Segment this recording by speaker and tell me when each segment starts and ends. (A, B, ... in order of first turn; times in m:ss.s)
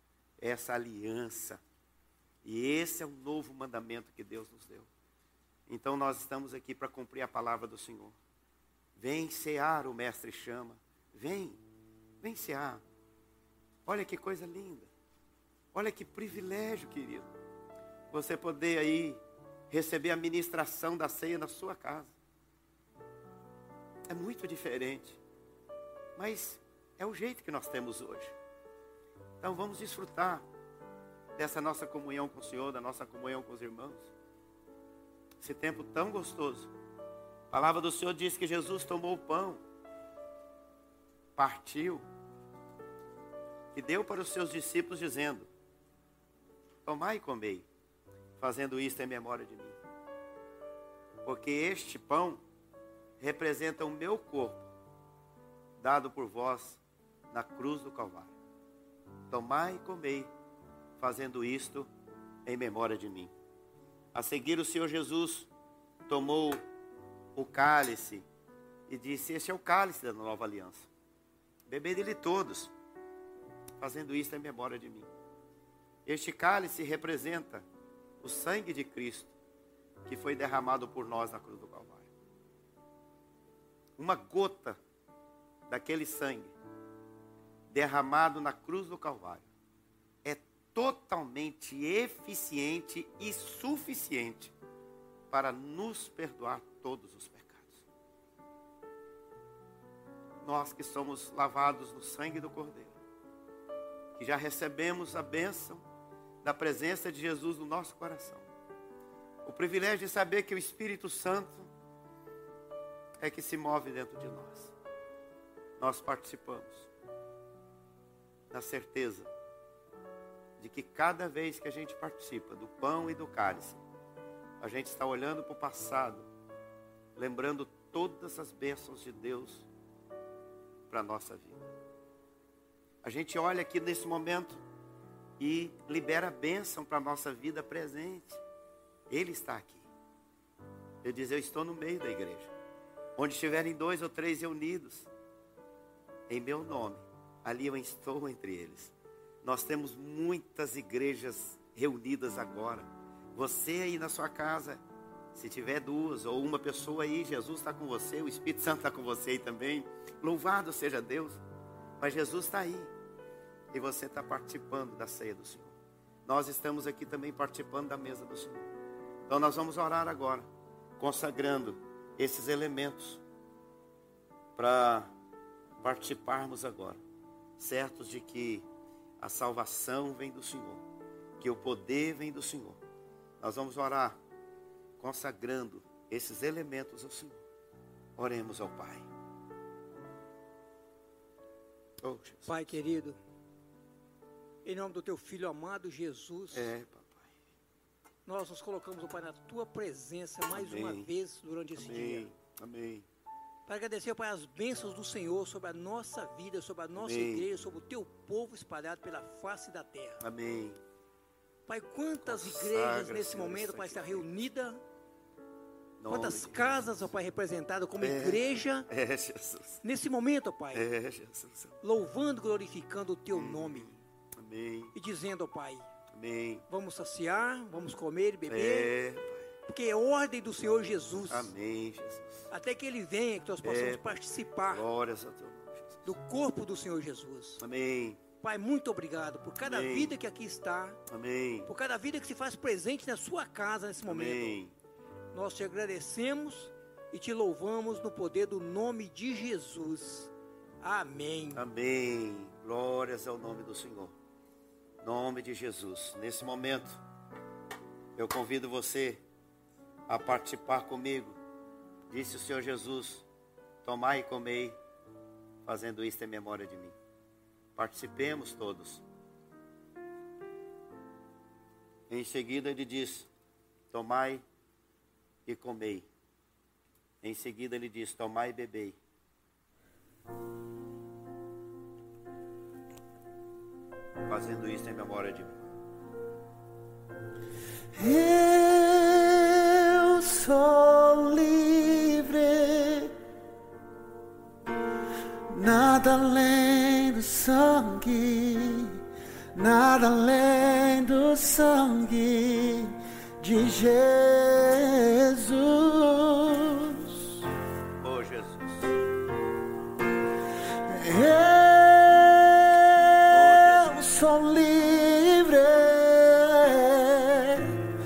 0:00.4-0:01.6 A
0:02.4-0:04.9 A
0:05.7-0:08.1 A
0:09.0-0:11.6 A
0:12.2-0:12.8 A
0:13.8-0:14.9 A
0:15.7-0:17.3 A
0:18.1-0:19.2 A
0:19.7-0:22.1 A
0:24.1-0:25.2 A
0:26.2-0:28.3 A
0:29.4-0:30.4 A
0:31.4-0:34.1 A
0:35.4-0:36.7 A
0:37.5-0:39.6 A
0:41.4-0:42.0 A
0:43.7-0:45.5 A
0:46.8-0:47.6 A
0:48.4-0:49.8 A
0:51.2-0:52.4 A
0:53.2-0:54.6 A
0:55.8-0:56.8 A
0:57.3-0:58.3 A
0:59.3-1:00.3 A
1:01.0-1:01.9 A
1:02.4-1:03.3 A
1:04.1-1:05.5 A
1:06.1-1:06.6 A
1:07.3-1:08.2 A
1:08.9-1:10.9 A
1:11.7-1:12.7 A
1:13.8-1:15.1 A
1:16.0-1:17.6 A
1:18.2-1:19.3 A
1:20.0-1:22.0 A
1:24.0-1:24.8 A
1:25.7-1:26.5 A
1:27.7-1:29.4 A
1:30.2-1:34.5 A
1:35.3-1:37.8 A
1:40.4-1:42.9 A
1:44.2-1:45.8 A
1:46.4-1:48.4 A
1:49.4-1:51.7 A
1:53.2-1:54.7 A
1:55.8-1:56.9 A
1:58.5-1:59.3 A
2:00.6-2:03.8 A
2:04.6-2:06.3 A
2:07.2-2:09.6 A
2:10.9-2:11.6 A
2:13.0-2:14.6 A
2:15.4-2:18.4 A
2:19.1-2:19.8 A
2:21.0-2:22.5 A
2:23.2-2:25.1 A
2:26.3-2:28.9 A
2:29.4-2:34.8 A
2:35.3-2:41.4 A
2:42.0-2:42.9 A
2:43.7-2:45.7 A
2:46.2-2:48.6 A
2:49.3-2:50.4 A
2:51.0-2:53.2 A
2:54.6-2:55.1 A
2:55.8-2:57.0 A
2:57.6-2:58.6 A
2:59.2-3:00.8 A
3:01.4-3:02.8 A
3:03.4-3:04.2 A
3:05.0-3:07.4 A
3:08.2-3:09.0 A
3:12.0-3:12.5 A
3:12.5-3:13.2 B
3:14.6-3:16.7 B
3:16.5-3:17.2 A
3:18.2-3:22.2 B
3:20.5-3:21.1 A
3:21.8-3:23.0 A
3:23.7-3:30.2 B
3:27.0-3:27.4 A
3:30.2-3:30.8 A
3:31.7-3:34.8 B
3:32.2-3:34.2 A
3:36.0-3:36.9 A
3:36.1-3:38.9 B
3:38.0-3:39.8 A
3:39.8-3:40.8 B
3:40.7-3:41.7 A
3:41.8-3:43.9 B
3:43.3-3:44.9 A
3:44.9-3:45.8 B
3:46.1-3:46.6 A
3:46.7-3:48.9 B
3:48.5-3:49.4 A
3:49.7-3:51.5 B
3:51.3-3:52.5 A
3:52.5-3:54.8 B
3:53.6-3:54.0 A
3:54.7-3:56.0 A
3:56.0-3:57.6 B
3:57.6-3:58.2 A
3:58.4-4:01.0 B
3:59.6-4:00.1 A
4:01.1-4:01.7 A
4:01.7-4:04.6 B
4:04.0-4:04.7 A
4:05.3-4:11.6 B
4:11.5-4:14.1 A
4:15.0-4:17.0 A
4:18.2-4:19.2 A
4:20.1-4:21.4 A
4:22.1-4:23.2 A
4:23.8-4:24.7 A
4:25.6-4:26.9 A
4:27.8-4:29.0 A
4:32.1-4:33.3 A
4:33.9-4:34.4 A
4:35.4-4:36.0 A
4:37.2-4:39.0 A
4:44.3-4:45.6 A
4:48.0-4:53.1 C
4:55.5-4:58.9 C
4:59.5-5:07.1 C
5:08.0-5:08.8 A
5:10.9-5:17.7 C
5:13.3-5:14.0 A